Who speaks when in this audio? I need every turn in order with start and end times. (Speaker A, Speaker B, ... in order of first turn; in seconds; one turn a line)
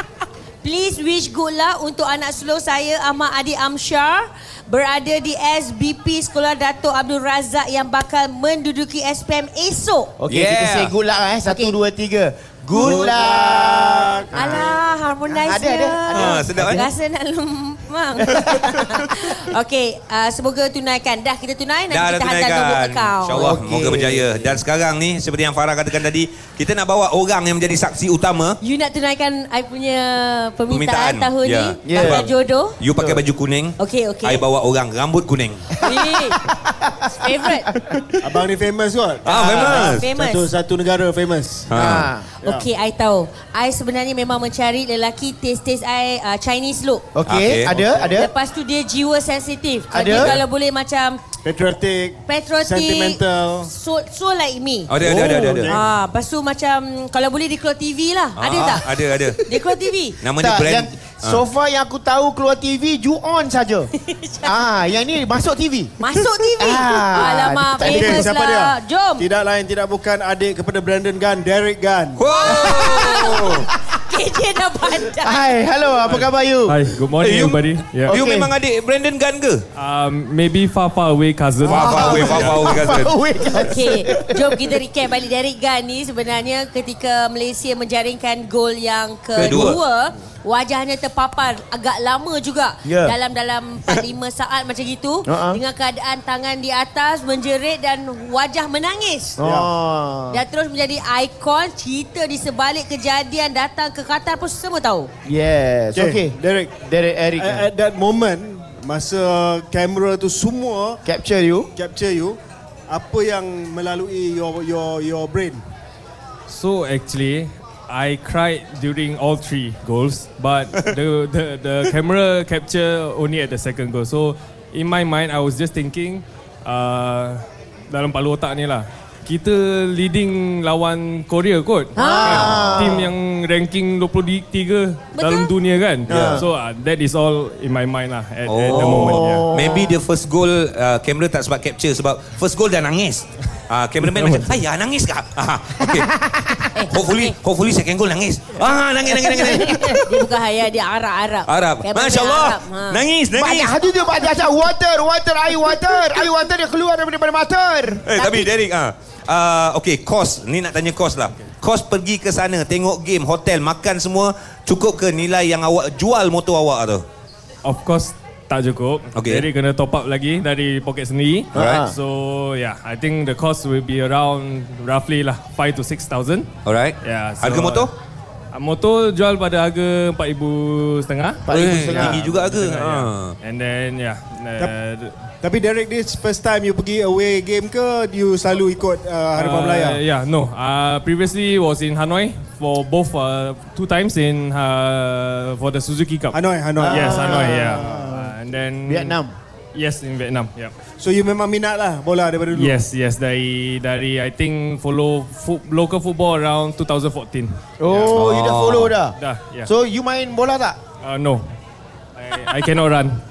Speaker A: 0.6-10.1
Speaker B: 10.2-14.7
Speaker C: 10.3-10.9
Speaker A: 11.4-11.7
Speaker D: 12.7-14.7
Speaker A: 12.7-13.2
Speaker A: 14.3-23.6
Speaker B: 15.3-16.9
Speaker C: 16.1-16.8
Speaker B: 18.2-19.0
Speaker C: 21.9-28.6
Speaker B: 23.3-24.5
Speaker A: 28.6-32.8
Speaker C: 30.7-35.6
Speaker B: 31.8-32.2
Speaker A: 33.8-34.5
Speaker B: 35.8-37.0
Speaker A: 35.8-36.4
Speaker A: 37.1-37.7
Speaker B: 37.6-37.9
Speaker D: 38.2-41.8
Speaker C: 39.2-40.0
Speaker B: 39.4-39.9
Speaker A: 39.5-40.5
Speaker C: 41.7-42.1
Speaker B: 41.8-42.3
Speaker D: 42.4-42.7
Speaker A: 42.4-47.0
Speaker B: 47.1-48.3
Speaker C: 47.2-47.8
Speaker D: 47.7-48.0
Speaker A: 48.0-51.2
Speaker B: 49.9-50.4
Speaker D: 51.4-53.7
Speaker A: 52.2-54.9
Speaker C: 54.9-55.7
Speaker D: 55.0-55.9
Speaker A: 55.6-58.8
Speaker C: 58.4-59.4
Speaker A: 59.4-60.2
Speaker C: 60.2-61.4
Speaker B: 60.4-63.9
Speaker A: 64.0-64.5
Speaker B: 64.4-65.9
Speaker A: 66.0-69.2
Speaker B: 66.6-68.3
Speaker D: 67.8-72.2
Speaker C: 72.2-73.7
Speaker A: 72.3-75.5
Speaker B: 72.6-73.7
Speaker B: 75.2-76.8
Speaker E: 76.0-78.2
Speaker C: 77.2-79.6
Speaker B: 78.1-78.5
Speaker E: 79.8-82.7
Speaker C: 81.6-83.2
Speaker B: 81.6-84.5
Speaker A: 83.6-99.4
Speaker C: 89.3-89.8
Speaker B: 89.4-89.7
Speaker B: 92.8-93.1
Speaker B: 95.2-95.6
Speaker B: 99.4-100.4
Speaker D: 99.4-99.7
Speaker A: 100.3-105.1
Speaker B: 105.2-107.7
Speaker D: 105.9-106.8
Speaker D: 107.3-111.0
Speaker B: 111.0-111.7
Speaker D: 111.7-115.6
Speaker E: 116.5-139.5
Speaker A: 131.9-132.8
Speaker B: 132.0-133.1
Speaker A: 135.1-135.5
Speaker B: 136.1-136.4
Speaker C: 136.1-136.4
Speaker C: 138.4-146.1
Speaker B: 138.7-140.0
Speaker E: 144.0-144.6
Speaker B: 145.8-146.7
Speaker A: 146.7-147.3
Speaker C: 146.9-150.0
Speaker B: 149.1-150.0
Speaker A: 150.0-153.0
Speaker C: 151.5-153.8
Speaker B: 153.3-158.0
Speaker C: 158.1-167.0
Speaker A: 158.1-158.5
Speaker E: 167.6-176.5
Speaker C: 169.1-169.5
Speaker C: 171.5-171.9
Speaker B: 171.5-171.9
Speaker C: 176.7-177.9
Speaker E: 177.0-177.9
Speaker E: 178.5-185.1
Speaker B: 181.5-182.2
Speaker C: 181.5-183.3
Speaker D: 185.4-190.0
Speaker E: 189.3-199.2
Speaker D: 196.3-198.3
Speaker B: 196.8-197.8
Speaker B: 198.9-199.3
Speaker E: 199.7-200.7
Speaker D: 201.0-202.8
Speaker E: 202.5-208.2
Speaker B: 207.8-210.8
Speaker C: 208.1-209.0
Speaker E: 209.2-209.7
Speaker E: 211.0-211.4
Speaker E: 212.2-213.2